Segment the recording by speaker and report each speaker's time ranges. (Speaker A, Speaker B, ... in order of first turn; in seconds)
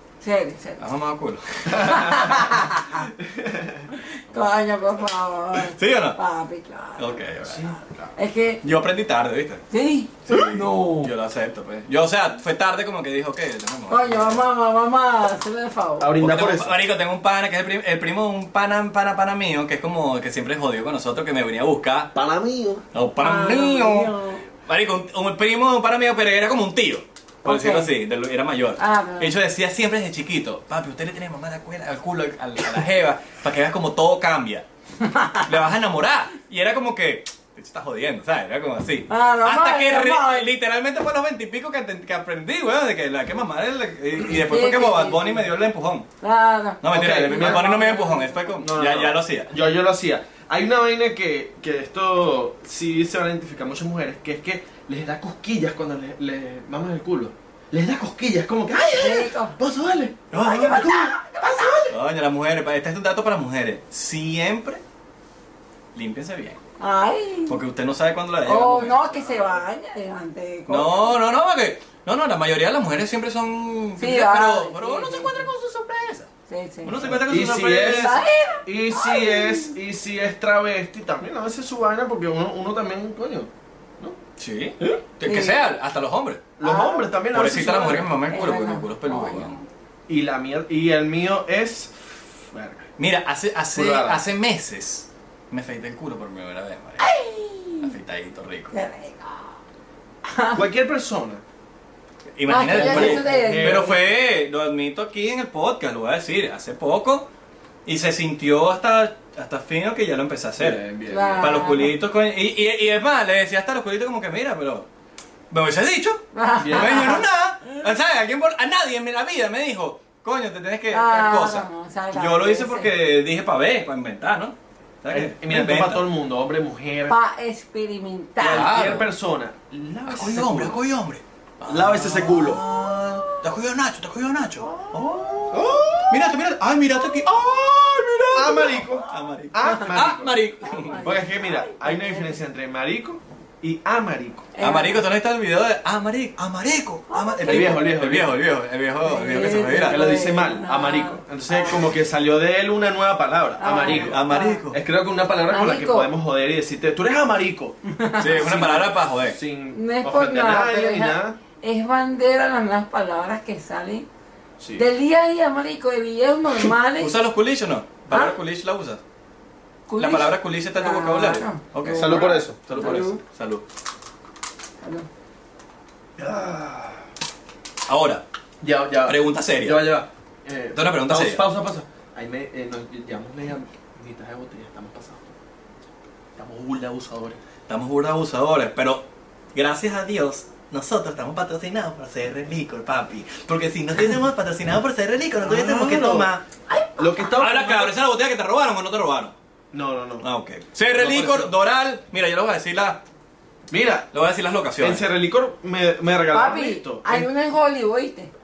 Speaker A: 0.2-0.9, 1.7-3.1, 3.9-7.2, 8.2-8.6, 9.7-11.1, 13.9-16.1, 23.2-24.4, 27.4-27.9, 28.8-29.4, 35.0-35.5, 39.1-40.5, 44.3-45.4, 46.2-48.5, 59.0-59.6, 60.3-61.8, 66.8-67.6, 68.5-71.2, 74.0-75.5, 76.5-77.2, 77.8-79.7, 85.2-85.7, 86.6-89.7, 97.0-97.9, 98.7-99.5, 100.3-100.6, 102.5-104.0, 111.1-111.9, 116.3-117.2, 120.9-122.9, 127.1-128.8, 139.6-140.0, 140.6-142.4, 144.6-145.0, 147.1-147.8, 149.0-151.8, 153.6-154.6, 155.5-156.1, 157.9-158.8, 159.7-164.1, 164.8-167.2, 168.1-168.4, 169.9-173.2, 174.8-175.1, 196.7-197.3, 206.3-208.3
Speaker B: 0.8-2.2, 5.6-6.2, 7.0-7.8, 8.6-9.7, 10.3-14.4, 16.2-22.1, 22.9-34.7, 35.5-46.1, 46.8-49.5, 60.4-60.9, 61.9-64.8, 66.0-66.6, 67.5-69.6, 70.7-76.3, 76.8-78.3, 84.4-86.5, 87.3-89.6, 93.0-97.1, 97.8-98.7, 102.4-107.3, 107.8-110.8, 111.4-114.9, 115.5-126.1, 128.4-129.1, 130.1-141.1, 144.6-150.1, 153.9-154.8, 158.2-159.4, 167.0-169.0, 170.0-173.6, 177.9-178.2, 179.0-179.9, 180.7-181.4, 187.7-196.4, 197.4-199.3, 200.2-203.0, 204.1-205.0
Speaker C: 1.8-2.3, 3.2-3.9, 7.5-8.1, 16.0-16.8, 22.1-22.8, 46.9-47.8, 48.6-62.0, 77.2-83.5, 86.6-88.1, 90.1-92.9, 93.8-94.2, 100.5-101.4, 102.7-104.0, 110.6-111.6, 116.6-117.2, 125.1-127.2, 128.4-130.8, 131.7-132.6, 135.5-136.3, 138.3-140.4, 141.0-144.5, 147.4-148.4, 149.8-154.2, 154.7-161.4, 164.6-164.8, 171.9-173.0, 176.2-177.0, 178.6-185.3, 186.4-187.4, 195.4-196.3, 197.0-198.0, 199.7-200.3, 201.0-201.5, 203.7-204.1, 204.8-207.3